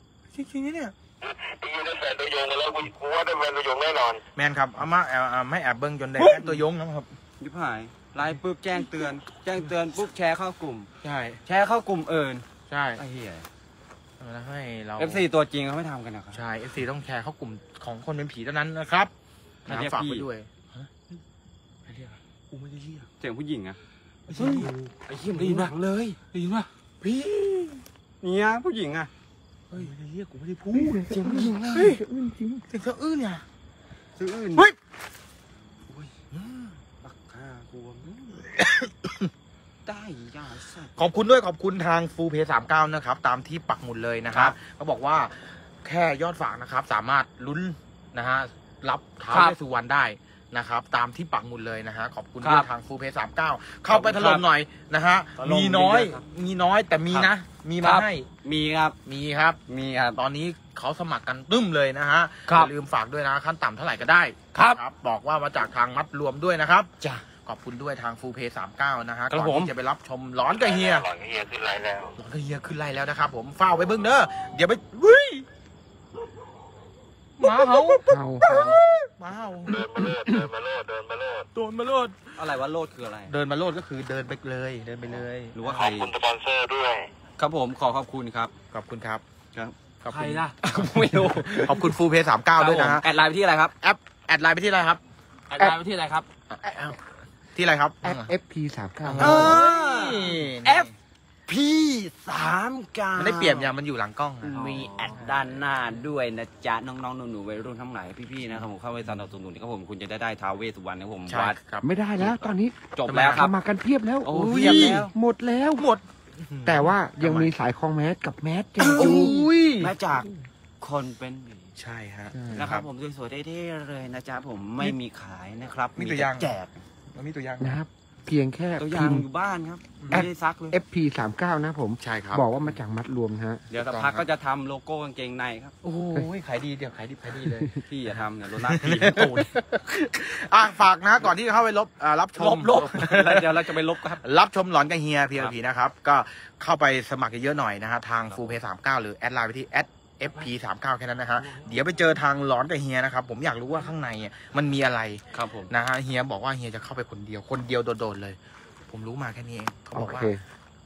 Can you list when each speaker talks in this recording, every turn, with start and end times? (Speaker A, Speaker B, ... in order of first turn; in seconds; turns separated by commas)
Speaker A: 0.3-0.9, Speaker B: 1.2-4.2, Speaker A: 4.4-7.1, Speaker C: 7.4-10.9, Speaker A: 11.0-11.4, Speaker C: 11.5-13.5, Speaker A: 12.7-13.0, Speaker A: 14.2-15.3, Speaker C: 15.0-16.4, Speaker A: 16.3-19.1, Speaker A: 19.7-20.9, Speaker C: 19.7-20.3, Speaker A: 21.9-23.1, Speaker C: 23.2-23.8, Speaker A: 24.3-24.9, Speaker C: 24.4-26.2, Speaker D: 25.3-25.7, Speaker D: 26.3-27.8, Speaker C: 28.2-29.1, Speaker A: 29.7-32.0, Speaker E: 30.7-32.6, Speaker C: 31.1-31.6, Speaker A: 32.7-33.4, Speaker C: 34.2-34.7, Speaker A: 36.3-36.7, Speaker C: 37.0-38.5, Speaker A: 38.6-39.3, Speaker C: 39.9-40.9, Speaker A: 41.0-58.3, Speaker C: 49.3-49.6, Speaker C: 52.4-52.7, Speaker C: 53.9-54.5, Speaker C: 55.4-56.3, Speaker C: 57.1-59.0, Speaker A: 59.1-59.6, Speaker C: 59.7-60.2, Speaker A: 60.2-66.9, Speaker C: 62.5-62.7, Speaker C: 64.5-64.8, Speaker A: 67.4-71.1, Speaker C: 69.3-69.7, Speaker B: 70.5-72.1, Speaker A: 72.2-75.4, Speaker A: 77.4-79.8, Speaker E: 78.0-78.8, Speaker B: 79.7-81.5, Speaker A: 81.6-82.1, Speaker C: 82.4-83.3, Speaker A: 83.3-85.6, Speaker C: 85.5-86.1, Speaker B: 85.6-87.1, Speaker C: 87.4-88.5, Speaker A: 88.7-89.2, Speaker A: 90.0-93.1, Speaker D: 90.1-90.6, Speaker C: 90.6-92.0, Speaker C: 92.5-93.7, Speaker A: 93.8-95.0, Speaker D: 95.5-96.3, Speaker A: 96.5-97.0, Speaker A: 97.5-98.3, Speaker E: 98.0-99.6, Speaker A: 99.0-100.9, Speaker C: 99.2-100.9, Speaker C: 101.5-103.7, Speaker A: 103.2-105.2, Speaker C: 104.4-111.6, Speaker A: 111.3-111.9, Speaker E: 111.8-115.9, Speaker C: 113.0-113.5, Speaker A: 113.1-113.5, Speaker C: 114.2-115.1, Speaker A: 114.3-115.1, Speaker A: 115.8-117.5, Speaker E: 116.7-119.5, Speaker A: 118.8-119.9, Speaker C: 118.9-121.7, Speaker A: 121.8-122.9, Speaker E: 122.3-122.7, Speaker C: 122.5-126.8, Speaker A: 126.0-126.5, Speaker A: 127.1-127.8, Speaker E: 127.6-129.3, Speaker C: 128.8-130.8, Speaker A: 130.0-130.3, Speaker E: 130.1-133.6, Speaker A: 132.0-132.4, Speaker C: 133.7-135.8, Speaker A: 133.8-134.2, Speaker A: 135.8-137.7, Speaker C: 137.8-139.5, Speaker A: 138.7-158.4, Speaker C: 142.4-144.2, Speaker C: 148.3-148.6, Speaker C: 155.3-155.7, Speaker A: 158.9-160.3, Speaker E: 159.9-160.4